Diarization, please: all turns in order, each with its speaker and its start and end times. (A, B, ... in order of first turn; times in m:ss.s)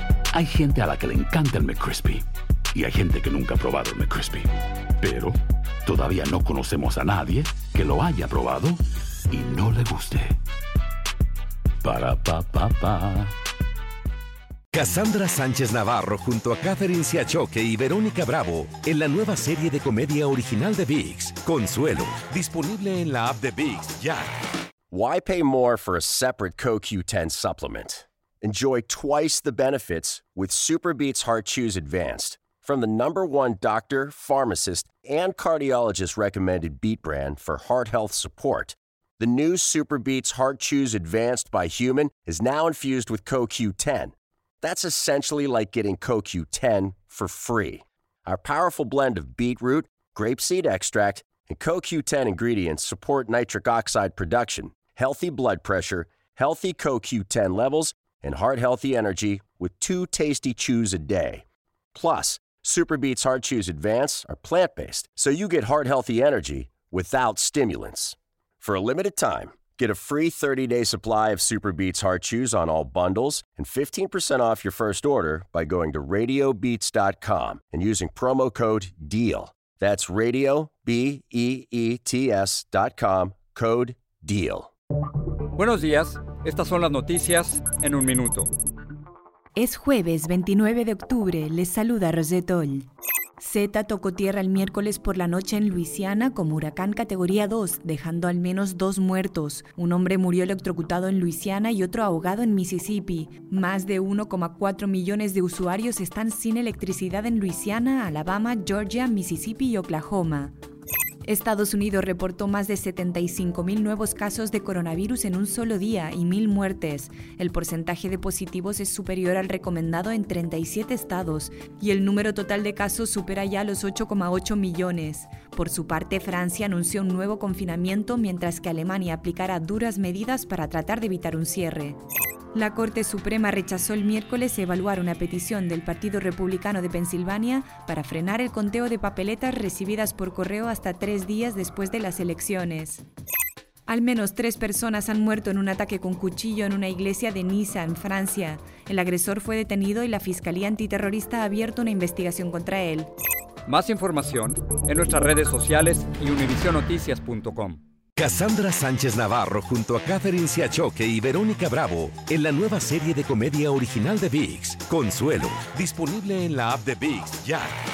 0:00.3-0:10.4 A
0:11.8-0:13.3 A
0:14.7-0:24.3 B
0:24.9-1:24.7 C
1:25.6-1:28.5 D
1:29.6-1:32.9 E
1:33.4-1:50.6 E
1:51.2-2:12.0 E
2:12.5-2:23.0 E
2:23.9-2:33.1 E
2:33.7-2:37.8 D
2:38.2-2:47.7 B